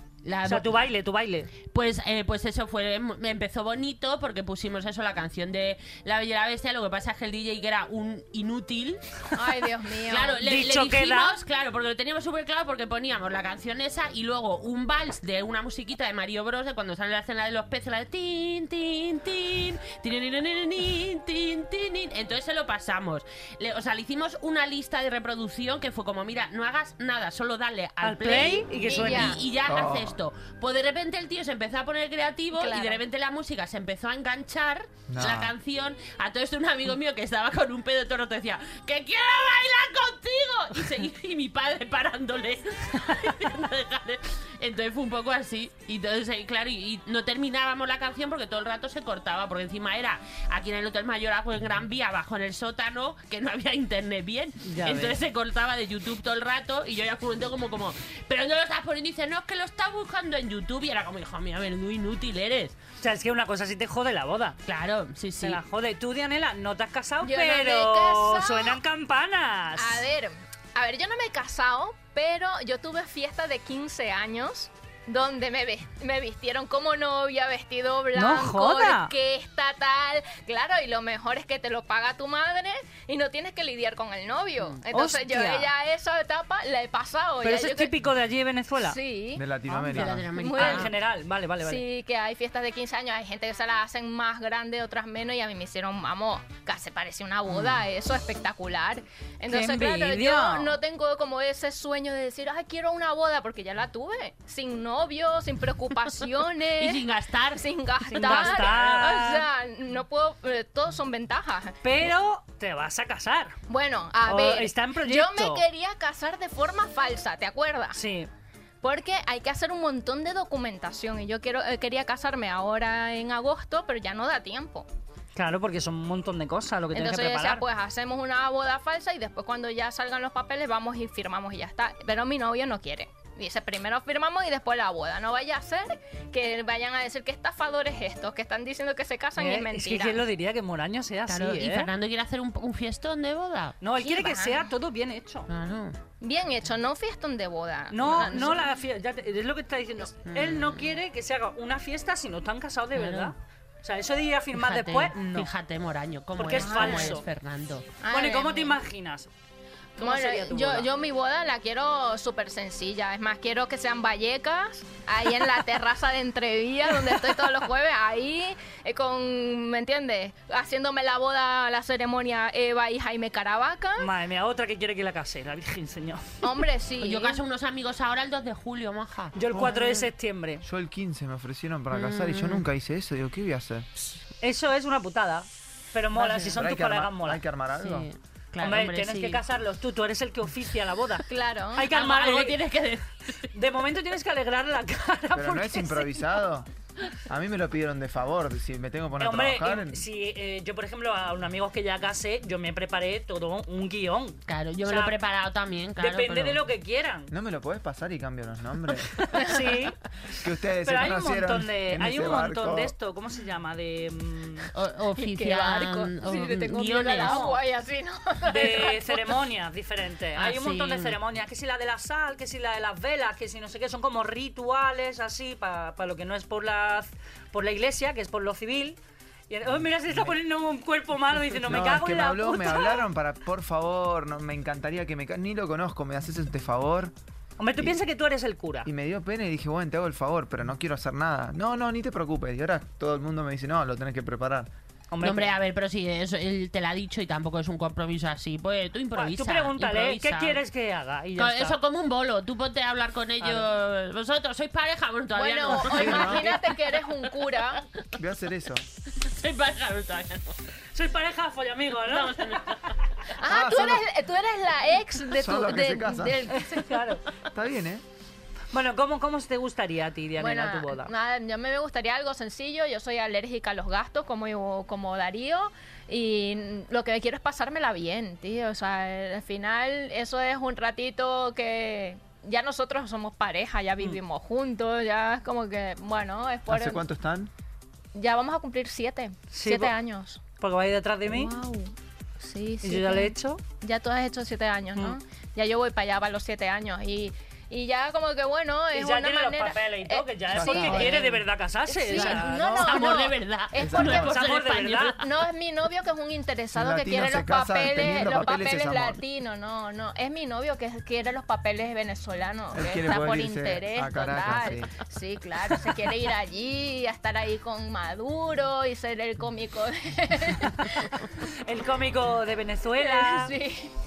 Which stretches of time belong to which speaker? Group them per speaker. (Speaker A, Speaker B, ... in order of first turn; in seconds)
Speaker A: 0.2-0.7, 1.6-9.3, 10.1-62.8, 64.6-65.6, 89.8-90.9, 106.8-108.8, 141.3-143.8, 145.5-146.0, 150.2-150.9, 152.9-153.3, 154.5-157.9, 177.0-180.1, 181.9-182.6, 186.1-186.6, 187.8-189.4, 191.9-193.5, 204.5-206.6, 214.7-217.4, 220.3-221.2, 245.2-250.6, 251.4-257.5, 259.2-260.6, 262.0-263.1, 302.1-305.2
Speaker B: 0.4-1.5, 10.4-11.4, 28.0-29.4, 54.6-55.2, 63.0-64.6, 65.4-70.0, 78.1-79.1, 84.9-85.7, 87.4-89.0, 90.4-91.8, 99.5-100.7, 108.1-109.5, 111.8-113.6, 114.2-115.6, 117.9-118.3, 125.3-127.6, 139.4-141.9, 143.8-145.5, 147.9-155.5, 156.3-157.2, 158.1-159.3, 159.9-160.9, 174.0-176.6, 179.3-180.6, 184.4-187.4, 188.6-192.6, 193.5-196.2, 199.2-205.2, 206.0-207.3, 209.2-210.0, 210.8-214.7, 217.2-217.6, 218.4-229.0, 229.5-233.1, 237.6-238.9, 245.1-245.5, 249.1-251.8, 253.4-253.7, 260.9-262.9, 266.5-267.2, 268.7-271.1, 289.5-289.9, 290.6-291.5, 292.8-293.6, 298.9-302.5, 304.0-305.2, 321.4-323.6
Speaker C: 9.3-10.4, 28.9-29.4, 32.5-33.0, 67.2-68.8, 69.8-87.9, 88.8-90.9, 91.6-107.0, 107.5-111.8, 113.7-118.0, 118.8-124.8, 126.9-140.2, 144.0-144.7, 146.2-148.7, 156.5-157.2, 158.0-158.8, 160.0-174.1, 176.4-177.4, 191.3-191.9, 209.3-209.6, 215.1-219.3, 255.3-257.8, 263.3-267.0, 270.4-287.0, 288.1-290.4, 291.3-304.4, 305.2-321.3, 323.0-323.9
Speaker D: 29.6-30.2, 35.1-35.5, 89.3-90.3, 180.6-183.9, 186.5-188.1, 195.3-196.7, 197.2-200.0, 207.3-209.4, 210.3-212.9, 231.6-237.1, 238.8-244.7, 255.8-256.5, 258.1-258.8, 263.4-264.0, 265.3-266.4, 267.4-268.0, 286.7-287.5, 300.5-301.2, 302.5-303.1, 303.8-304.3, 306.7-309.2, 312.7-314.9